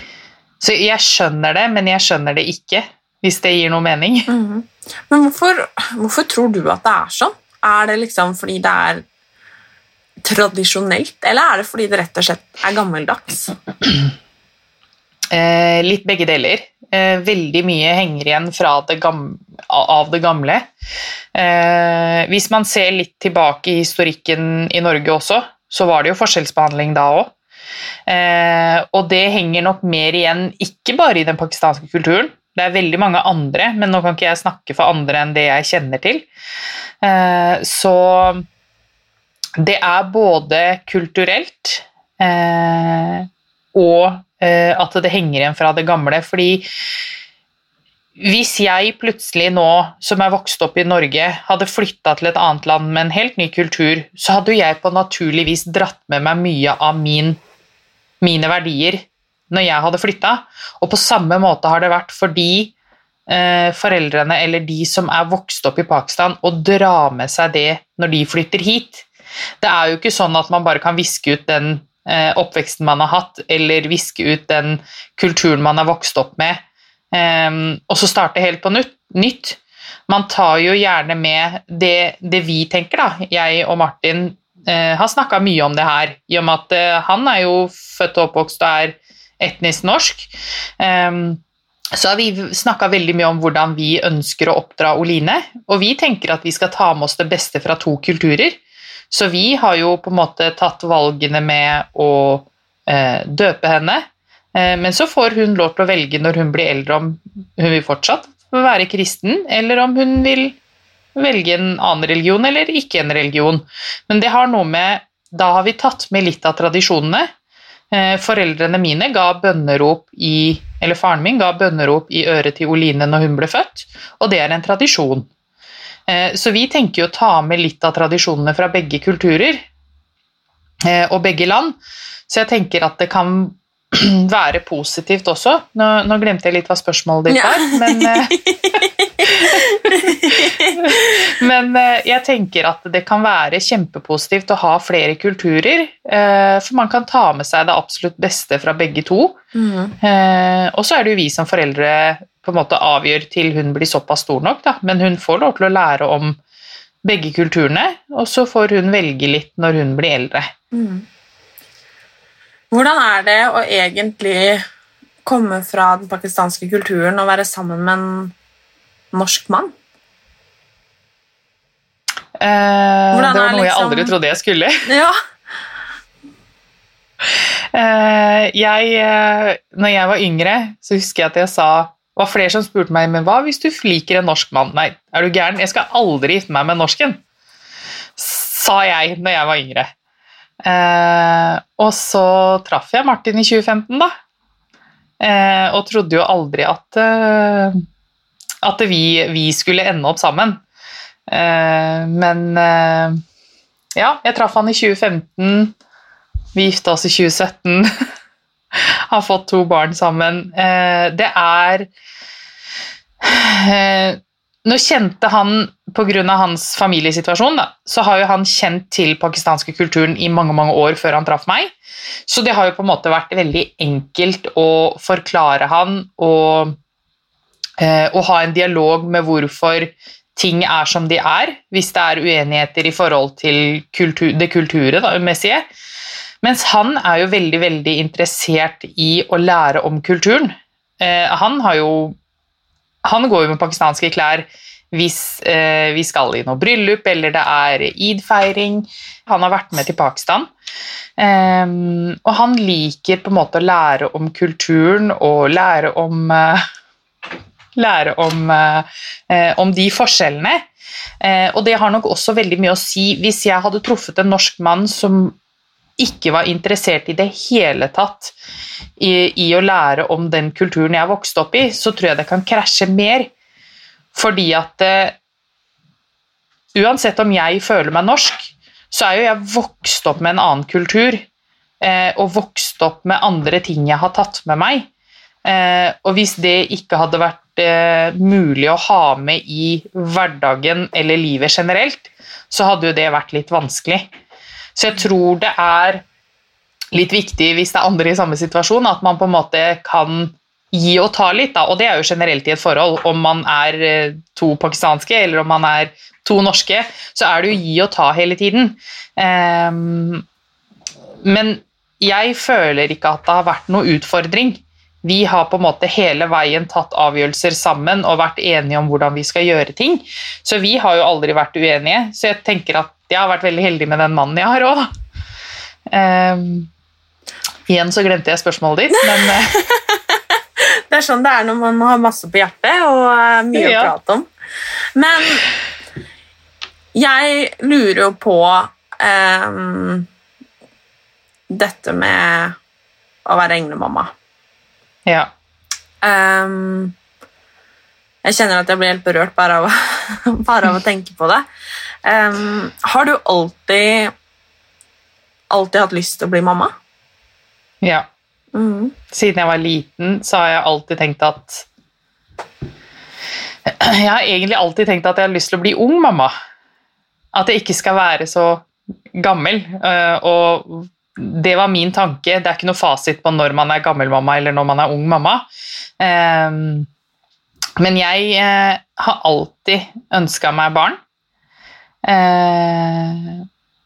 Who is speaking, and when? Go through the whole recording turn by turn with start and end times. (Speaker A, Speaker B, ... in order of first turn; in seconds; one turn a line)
Speaker A: 0.6-4.3
Speaker B: 4.3-9.0
Speaker B: 10.2-13.5
Speaker A: 15.3-20.7
Speaker A: 21.3-27.3
Speaker A: 28.1-36.3
Speaker A: 37.0-38.4
Speaker A: 39.6-46.6
Speaker A: 48.2-57.4
Speaker A: 58.2-62.7
Speaker A: 63.3-69.0
Speaker A: 69.6-76.6
Speaker A: 77.1-91.4
Speaker A: 91.9-98.6
Speaker A: 99.1-110.6
Speaker A: 111.2-117.3
Speaker A: 117.9-125.3
Speaker A: 126.1-129.7
Speaker A: 130.8-131.8
Speaker A: 132.3-138.4
Speaker B: 137.3-141.3
Speaker A: 139.2-149.4
Speaker B: 149.5-149.9
Speaker A: 150.0-156.4
Speaker A: 157.0-160.5
Speaker B: 160.7-161.1
Speaker B: 162.7-164.6
Speaker B: 165.2-168.3
Speaker B: 169.1-169.7
Speaker A: 172.4-174.8
Speaker B: 173.1-174.2
Speaker B: 174.8-175.2
Speaker A: 177.7-187.2
Speaker A: 188.2-189.9
Speaker A: 190.6-194.1
Speaker A: 195.2-197.8
Speaker A: 198.6-200.6
Speaker A: 201.3-203.2
Speaker A: 203.9-205.8
Speaker A: 206.5-207.9
Speaker A: 208.8-211.9
Speaker A: 213.2-221.7
Speaker A: 222.3-226.8
Speaker A: 227.8-235.7
Speaker A: 236.4-242.2
Speaker A: 243.0-250.5
Speaker A: 251.2-256.6
Speaker A: 257.8-260.7
Speaker A: 261.2-265.4
Speaker A: 266.0-268.3
Speaker A: 269.0-273.3
Speaker A: 274.1-275.1
Speaker A: 276.7-281.2
Speaker A: 281.8-284.9
Speaker A: 285.4-294.1
Speaker A: 294.8-296.0
Speaker A: 296.9-310.2
Speaker A: 311.2-324.9
Speaker A: 325.9-326.7
Speaker A: 327.7-329.6
Speaker B: 329.0-334.3
Speaker A: 333.5-333.9
Speaker B: 334.9-335.4
Speaker B: 336.9-340.1
Speaker B: 341.5-342.6
Speaker B: 343.2-344.1
Speaker A: 345.1-345.3
Speaker B: 346.0-346.9
Speaker B: 348.2-351.4
Speaker B: 352.0-354.1
Speaker B: 355.5-356.7
Speaker A: 357.8-358.1
Speaker B: 358.5-358.9
Speaker A: 359.1-361.7
Speaker A: 363.6-366.3
Speaker A: 367.3-375.4
Speaker A: 376.0-376.9
Speaker A: 377.8-381.0
Speaker A: 382.0-383.4